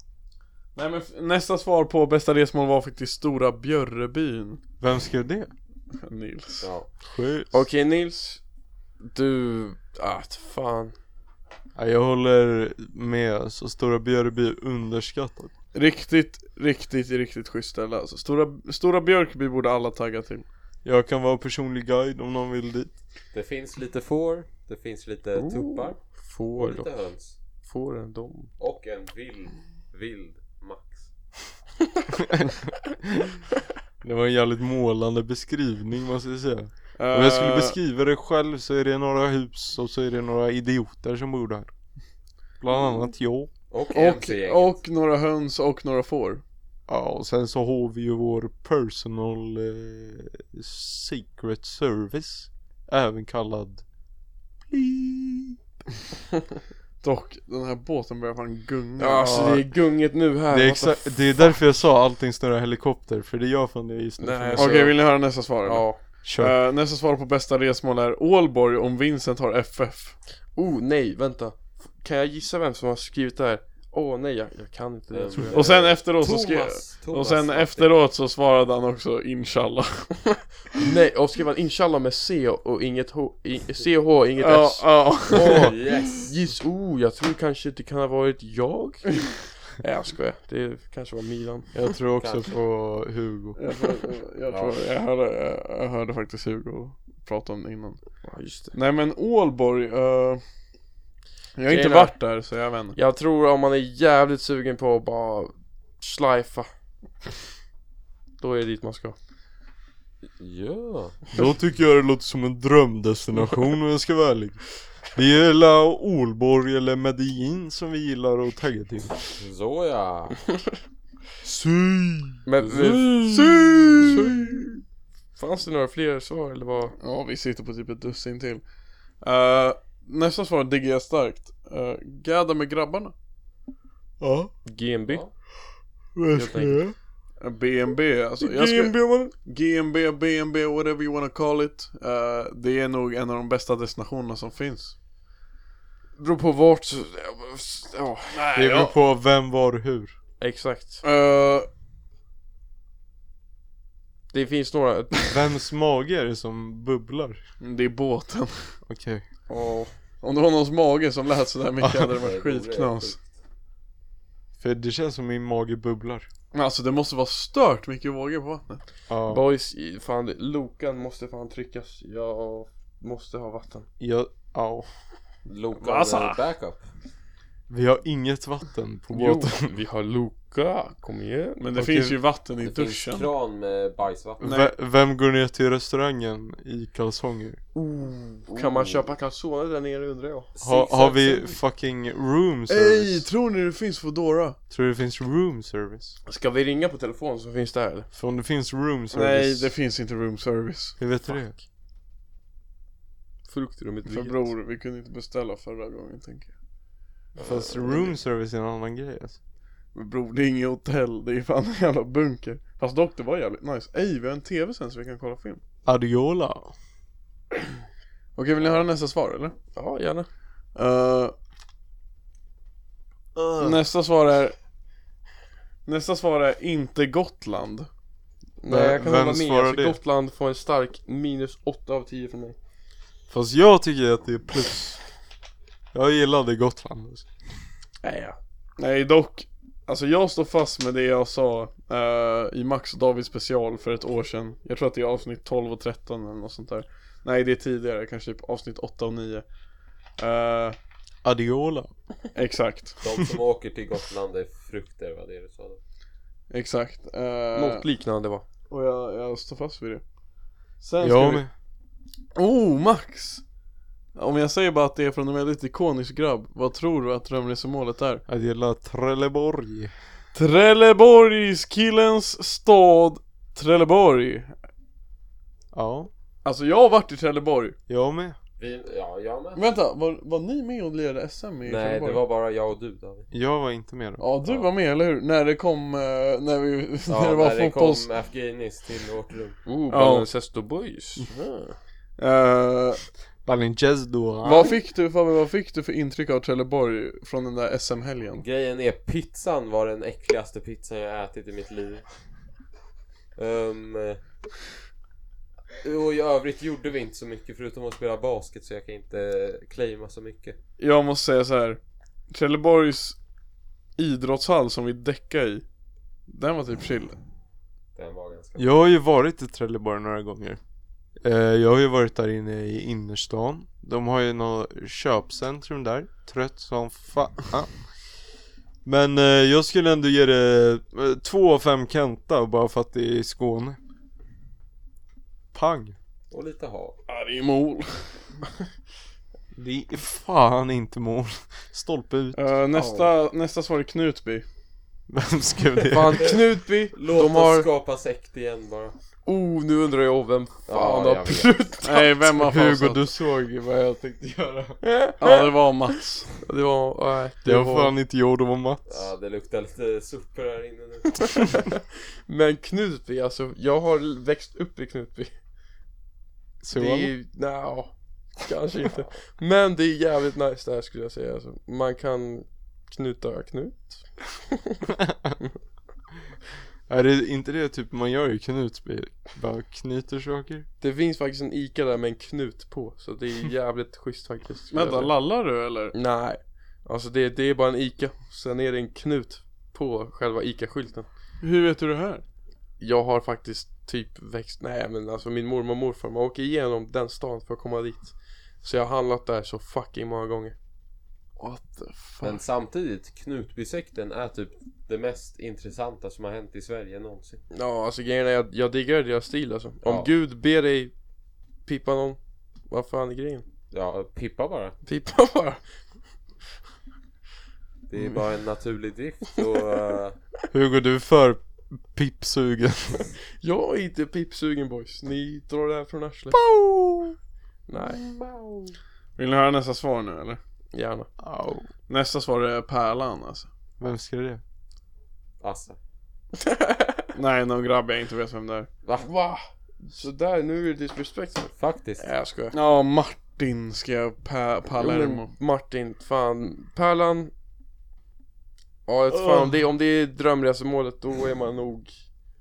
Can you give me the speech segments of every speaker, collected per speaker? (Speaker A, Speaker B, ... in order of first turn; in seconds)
Speaker A: 0.8-4.6, 6.0-6.7, 15.7-20.4, 37.0-37.8, 43.9-46.4, 57.0-59.6, 64.6-70.2, 75.5-80.1, 84.4-85.7, 93.6-98.0, 98.7-100.4, 101.6-103.0, 127.0-128.6, 129.2-133.1, 137.4-144.9, 148.3-148.9, 151.0-151.7, 157.6-158.8, 160.2-163.2, 166.5-168.8, 175.8-176.4, 181.6-183.3, 184.4-184.8, 192.7-194.6, 199.1-201.0, 204.1-206.5, 209.9-215.6, 218.4-219.6, 220.8-221.3, 223.6-224.6, 225.9-227.9, 238.8-249.4, 250.2-250.8, 252.3-253.0, 256.5-257.9, 258.7-260.0, 260.8-261.4, 262.4-263.4, 264.2-268.2, 270.4-274.6, 276.4-277.8, 279.6-282.2, 284.2-288.1, 289.9-290.3, 292.2-293.0, 294.4-298.4, 310.8-311.8, 312.3-313.2, 314.0-315.6, 316.3-317.2, 337.1-338.2, 342.4-344.4, 351.9-353.1, 355.2-356.3, 384.7-385.9, 391.4-392.2, 401.4-402.4, 429.2-430.4, 431.9-433.5, 437.1-438.7, 442.5-445.3
Speaker B: 4.8-5.5, 7.1-7.5, 11.8-15.5, 20.8-22.9, 32.3-32.6, 34.0-41.7, 42.6-43.5, 46.9-53.8, 54.7-55.6, 59.2-59.6, 60.5-64.9, 66.2-66.6, 91.7-93.6, 111.3-119.2, 121.4-124.3, 134.2-134.5, 136.2-136.9, 138.4-139.3, 148.6-150.2, 155.3-157.4, 158.9-159.2, 161.8-162.1, 164.6-166.3, 169.1-169.4, 174.0-174.9, 177.7-179.7, 181.8-182.2, 184.4-187.6, 190.6-193.3, 194.7-196.2, 198.1-199.7, 201.0-201.6, 207.4-209.4, 215.9-216.7, 223.4-223.8, 228.7-230.0, 233.3-235.0, 235.9-237.3, 251.2-251.9, 261.0-261.5, 268.3-269.9, 275.7-276.1, 277.9-278.4, 283.3-284.2, 293.4-294.7, 318.6-320.6, 321.2-327.9, 328.9-333.8, 335.5-336.0, 339.6-343.1, 345.1-346.4, 352.3-354.8, 357.4-359.0, 366.6-367.1, 376.9-380.7, 420.5-423.1, 426.5-426.9, 431.2-431.7, 433.8-434.4, 449.1-449.4
Speaker C: 6.6-6.9, 23.3-26.0, 26.6-27.4, 28.6-31.1, 43.7-44.8, 75.1-77.9, 85.3-86.4, 92.2-92.5, 94.5-94.8, 110.4-111.3, 119.4-120.4, 122.6-122.9, 162.2-163.2, 175.5-176.9, 182.6-184.4, 188.5-189.0, 190.6-191.5, 207.4-208.0, 253.0-255.8, 278.6-279.6, 281.6-283.3, 287.1-289.6, 291.4-291.7, 298.4-302.0, 303.4-304.2, 305.8-310.6, 317.9-318.8, 336.3-337.0, 346.9-349.0, 350.7-351.6, 358.9-361.6, 402.2-407.4, 409.8-410.1, 413.7-414.8, 417.9-420.2, 428.0-428.7, 435.4-435.8, 441.6-442.1
Speaker D: 7.5-8.4, 9.0-10.9, 25.4-26.9, 27.6-28.5, 59.0-61.6, 64.2-65.0, 65.6-66.0, 70.6-75.8, 80.7-91.8, 98.2-98.7, 101.7-102.2, 103.0-106.7, 108.4-109.2, 122.5-124.8, 125.4-127.0, 134.7-135.2, 136.3-136.9, 146.2-148.4, 150.4-151.0, 154.3-155.4, 159.5-159.9, 169.3-173.9, 179.1-181.6, 187.8-190.5, 196.3-198.1, 201.3-201.5, 203.5-204.5, 219.7-220.3, 228.6-232.6, 238.0-238.4, 257.6-258.4, 289.7-291.3, 345.9-347.7, 349.3-352.2, 354.8-355.5, 356.4-357.9, 361.4-365.3, 366.8-374.8, 380.8-385.1, 385.9-391.1, 392.8-400.6, 407.5-410.9, 411.7-412.2, 412.7-413.5, 414.9-415.6, 423.4-426.4, 427.7-428.0, 430.7-431.1, 436.4-437.1, 439.0-442.6, 444.8-447.3, 448.9-451.9